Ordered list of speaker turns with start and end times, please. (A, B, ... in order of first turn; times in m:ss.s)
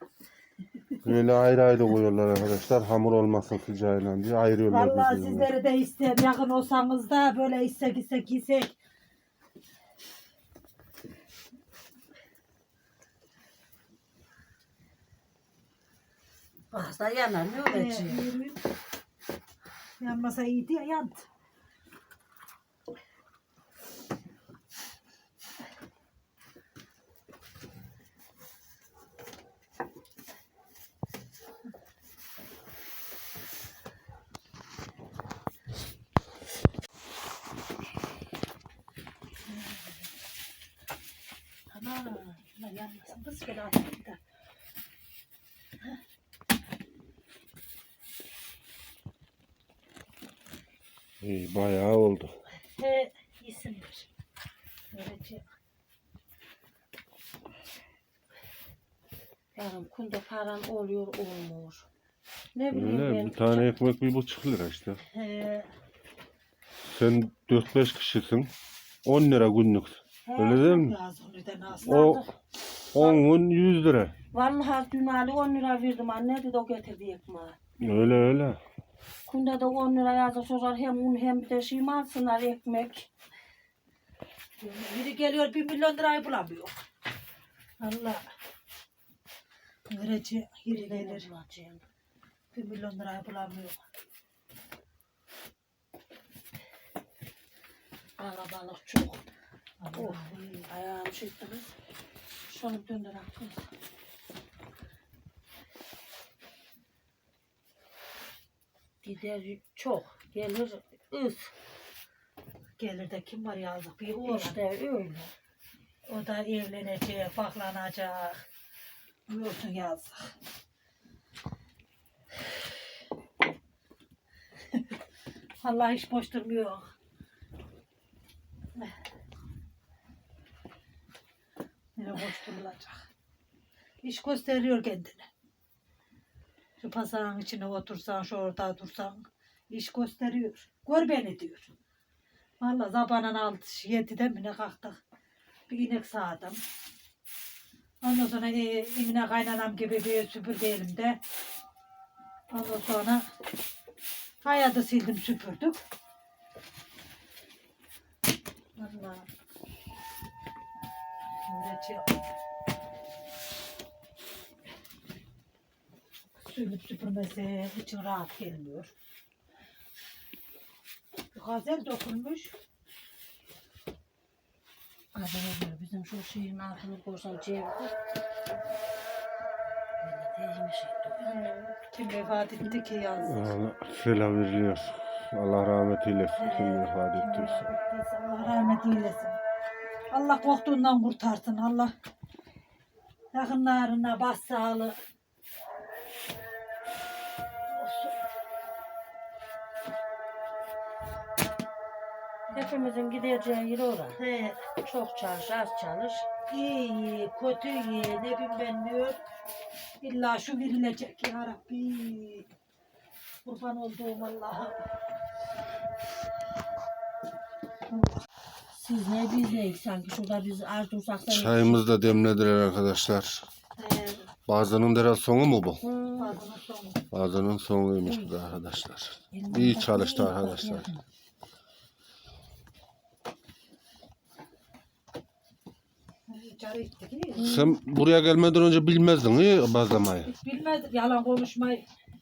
0:01.0-0:05.5 A
0:04.7-0:08.7 B
0:16.7-0:18.2 C
0:17.6-0:18.6 B
0:20.0-0:21.2 B
0:39.5-0:40.0 B
0:41.7-0:44.2 B
0:51.2-0:52.3 A
0:52.7-0:54.1 B
0:54.9-0:55.5 B
0:59.6-1:01.9 C
1:02.6-1:03.7 C
1:02.7-1:05.0 A
1:05.1-1:05.7 B
1:06.9-1:08.5 A
1:09.0-1:11.0 A
1:10.3-1:10.6 C
1:10.4-1:12.0 B
1:11.8-1:12.3 C
1:11.9-1:12.2 A
1:12.9-1:14.2 A
1:13.0-1:13.2 B
1:14.3-1:17.6 C
1:17.8-1:18.6 A
1:19.3-1:23.1 C
1:24.6-1:26.7 B
1:27.8-1:28.2 B
1:29.9-1:31.3 B
1:30.7-1:31.8 C
1:32.5-1:33.8 B
1:38.2-1:39.2 C
1:39.8-1:40.7 B
1:40.0-1:41.6 C
1:42.5-1:43.6 C
1:49.0-1:51.5 C
1:52.8-1:54.6 B
1:54.0-1:55.3 C
1:56.1-1:58.4 B
1:59.3-2:00.3 B
2:05.6-2:06.9 B
2:12.0-2:13.0 B
2:14.0-2:15.3 B
2:16.8-2:21.7 B
2:22.6-2:25.0 B
2:25.7-2:26.6 B
2:28.0-2:31.2 B
2:32.5-2:33.2 B
2:34.4-2:35.8 B
2:38.8-2:39.3 B
2:41.5-2:42.2 B
2:46.4-2:48.9 B
2:51.3-2:52.6 B
2:55.1-2:57.9 C
3:00.0-3:01.2 C
3:01.2-3:03.6 B
3:03.2-3:07.7 A
3:06.4-3:09.4 B
3:10.1-3:11.9 B
3:13.3-3:15.0 B
3:17.7-3:18.2 B
3:22.5-3:24.2 C
3:24.2-3:24.7 B
3:24.8-3:26.3 C
3:26.5-3:29.2 B
3:30.0-3:32.5 B
3:33.4-3:34.8 B
3:38.7-3:41.8 C
3:41.3-3:43.5 A
3:43.8-3:44.2 B
3:44.5-3:45.8 A
3:45.8-3:46.4 C
3:46.2-3:47.0 B
3:47.1-3:50.9 A
3:48.0-3:48.3 C
3:49.3-3:51.0 C
3:56.3-3:57.5 B
3:57.4-3:57.8 C
3:57.4-4:00.3 A
4:00.2-4:01.8 B